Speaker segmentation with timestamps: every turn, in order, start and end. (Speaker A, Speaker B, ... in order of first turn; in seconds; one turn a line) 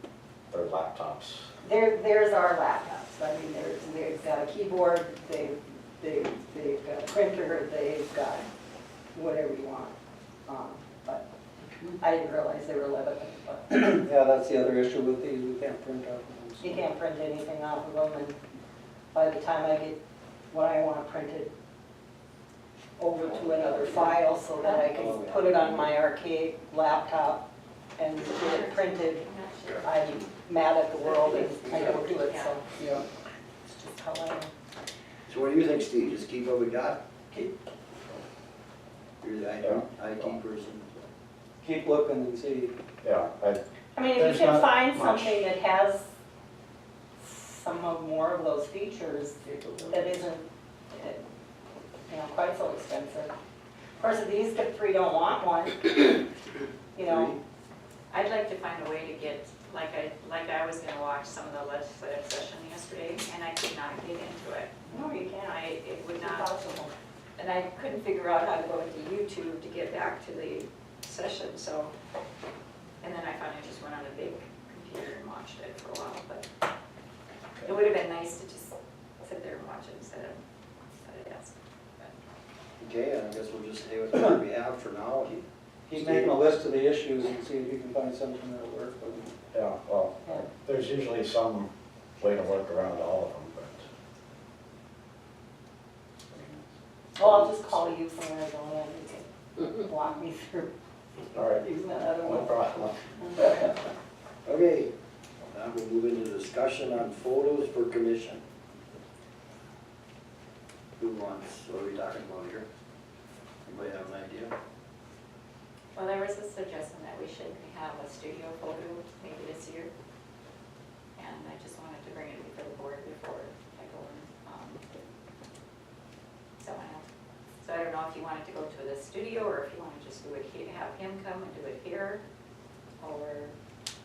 Speaker A: 0.5-1.5
Speaker B: 1.6-8.5
Speaker B: 9.1-9.9
Speaker B: 10.5-11.3
Speaker B: 12.0-14.0
Speaker C: 13.7-16.9
Speaker B: 16.6-18.4
Speaker B: 19.1-20.0
Speaker B: 20.5-21.5
Speaker B: 23.0-27.4
Speaker D: 23.2-24.2
Speaker D: 24.9-25.9
Speaker B: 28.0-29.2
Speaker E: 28.1-29.9
Speaker B: 29.8-32.7
Speaker E: 31.3-32.6
Speaker C: 32.7-33.0
Speaker B: 33.7-34.5
Speaker D: 35.3-37.0
Speaker D: 39.2-41.1
Speaker A: 39.6-40.3
Speaker C: 41.6-42.7
Speaker A: 43.0-43.6
Speaker B: 44.0-46.1
Speaker A: 44.1-45.3
Speaker B: 47.2-51.2
Speaker B: 52.1-53.3
Speaker B: 54.0-56.1
Speaker B: 57.0-57.4
Speaker D: 57.1-57.4
Speaker E: 58.1-66.5
Speaker B: 64.9-66.9
Speaker E: 67.4-71.9
Speaker E: 73.0-76.5
Speaker E: 77.6-80.4
Speaker E: 81.0-82.2
Speaker D: 82.8-86.4
Speaker C: 85.9-89.3
Speaker A: 89.5-93.9
Speaker A: 96.3-96.6
Speaker B: 97.2-100.7
Speaker B: 101.3-103.7
Speaker A: 101.3-101.7
Speaker A: 102.2-103.0
Speaker D: 104.5-104.9
Speaker D: 105.5-108.4
Speaker D: 111.0-112.7
Speaker D: 113.7-114.5
Speaker E: 116.0-119.9
Speaker E: 121.2-124.8
Speaker E: 126.6-127.0
Speaker E: 127.6-132.2
Speaker E: 133.0-133.5